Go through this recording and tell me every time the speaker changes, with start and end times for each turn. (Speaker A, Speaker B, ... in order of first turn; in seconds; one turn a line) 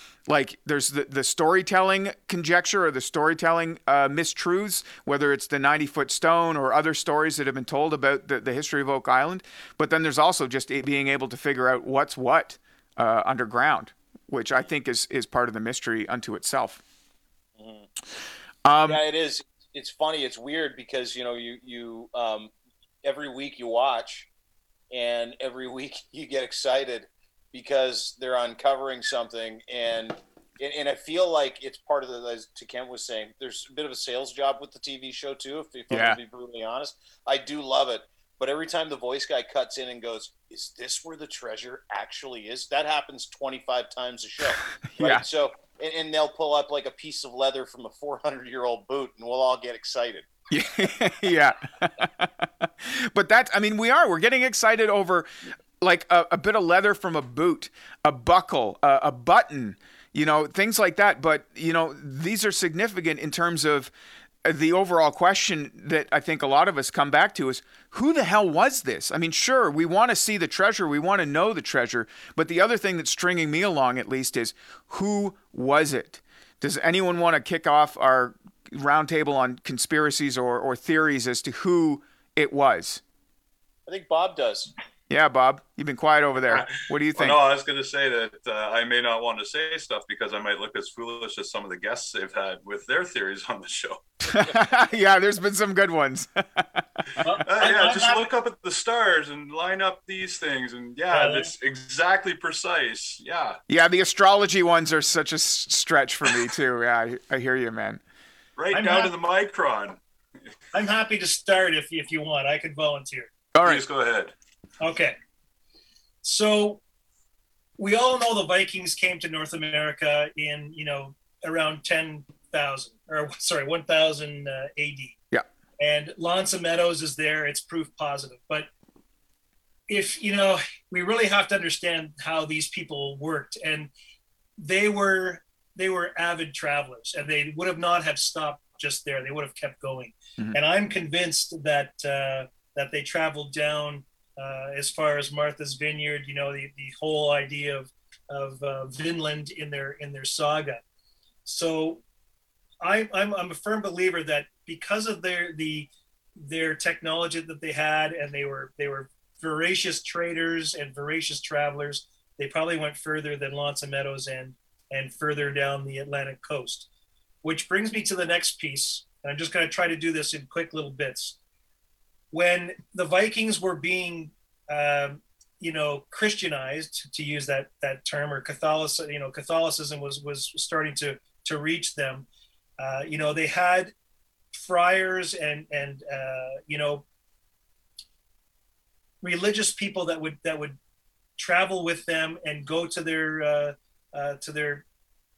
Speaker A: 0.2-16.8
Speaker B: 17.6-17.9
Speaker A: 18.6-19.0
Speaker B: 18.9-22.5
Speaker B: 23.0-24.3
Speaker B: 24.9-50.3
Speaker A: 35.9-36.2
Speaker A: 44.9-45.2
Speaker A: 50.5-55.3
Speaker A: 55.8-63.9
Speaker A: 64.4-83.0
Speaker B: 83.9-84.7
Speaker A: 85.1-87.4
Speaker C: 86.5-94.0
Speaker A: 94.2-97.2
Speaker D: 97.2-98.3
Speaker C: 97.4-103.6
Speaker D: 101.1-101.5
Speaker A: 103.7-108.0
Speaker C: 108.6-110.0
Speaker D: 108.7-109.1
Speaker D: 110.7-113.3
Speaker A: 113.5-113.8
Speaker C: 113.6-114.3
Speaker D: 114.8-115.2
Speaker D: 116.2-116.8
Speaker D: 117.8-125.2
Speaker D: 125.8-128.7
Speaker D: 129.9-133.9
Speaker D: 134.6-150.8
Speaker D: 151.4-152.0
Speaker D: 152.8-166.9
Speaker D: 167.4-171.4
Speaker D: 172.3-182.3
Speaker D: 182.8-183.9
Speaker D: 184.5-187.0
Speaker D: 189.2-190.8
Speaker D: 191.4-194.8